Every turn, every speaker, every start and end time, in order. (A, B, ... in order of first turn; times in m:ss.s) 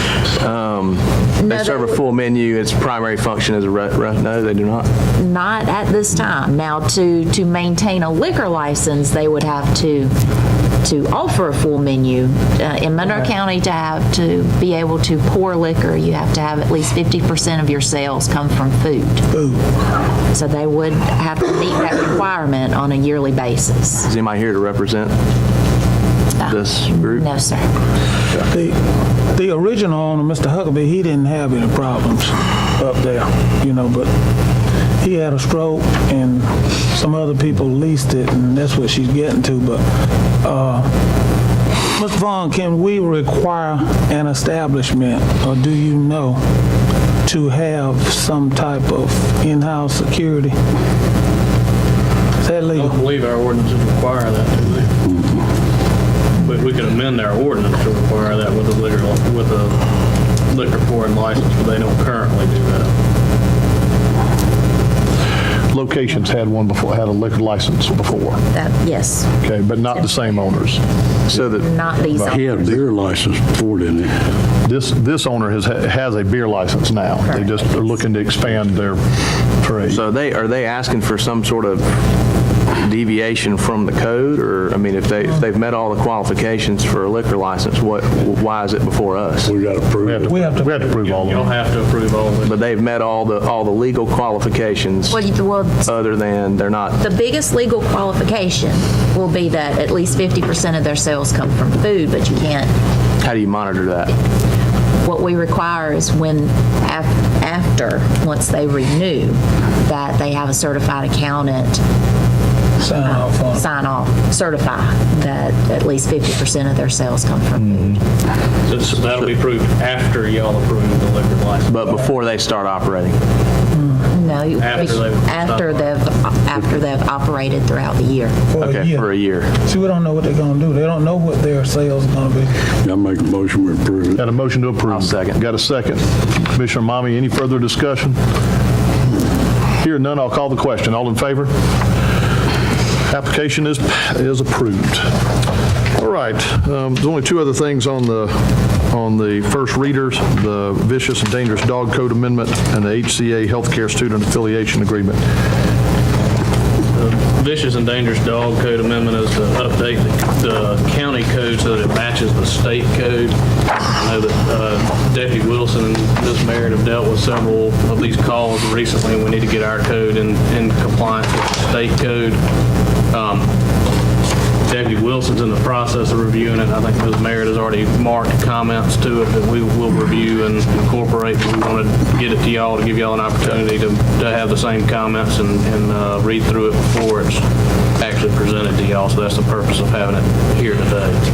0:00.3-0:04.9 A
0:01.4-0:02.0 B
0:05.2-0:10.1 B
0:10.8-0:19.3 B
0:19.3-0:19.6 C
0:20.3-0:24.1 B
0:24.0-0:25.1 A
0:26.4-0:27.7 B
0:26.5-0:27.3 A
0:28.4-0:28.8 C
0:29.3-0:34.1 C
0:35.0-0:39.8 C
0:40.4-0:40.9 C
0:42.0-0:46.4 C
0:47.2-0:50.6 C
0:52.4-0:53.0 C
0:52.7-0:54.9 D
0:56.4-0:59.8 D
1:00.5-1:02.9 D
1:05.7-1:08.4 E
1:08.5-1:09.3 B
1:09.4-1:10.8 E
1:11.3-1:11.7 A
1:11.4-1:12.8 B
1:12.1-1:12.8 E
1:12.2-1:14.2 F
1:14.6-1:20.0 E
1:17.2-1:18.0 B
1:19.9-1:22.0 A
1:22.7-1:29.5 A
1:29.4-1:30.6 F
1:30.0-1:31.5 E
1:30.3-1:30.8 C
1:30.8-1:32.6 D
1:32.4-1:35.2 A
1:35.1-1:35.9 B
1:35.8-1:37.0 A
1:37.0-1:42.7 B
1:43.2-1:44.1 A
1:45.0-1:51.8 B
1:52.8-1:53.7 C
1:53.0-1:58.0 B
1:57.6-1:58.0 E
1:58.7-2:02.0 D
2:01.7-2:03.2 A
2:03.8-2:04.1 C
2:04.1-2:08.4 B
2:04.6-2:05.9 D
2:08.5-2:09.1 C
2:08.6-2:09.5 A
2:09.6-2:12.6 C
2:12.8-2:14.2 F
2:14.2-2:18.2 E
2:14.9-2:15.4 A
2:19.7-2:21.5 E
2:23.1-2:25.1 E
2:26.0-2:35.2 E
2:36.9-2:52.4 D
2:53.1-2:53.5 D
2:54.6-3:07.4 D
3:08.0-3:11.2 D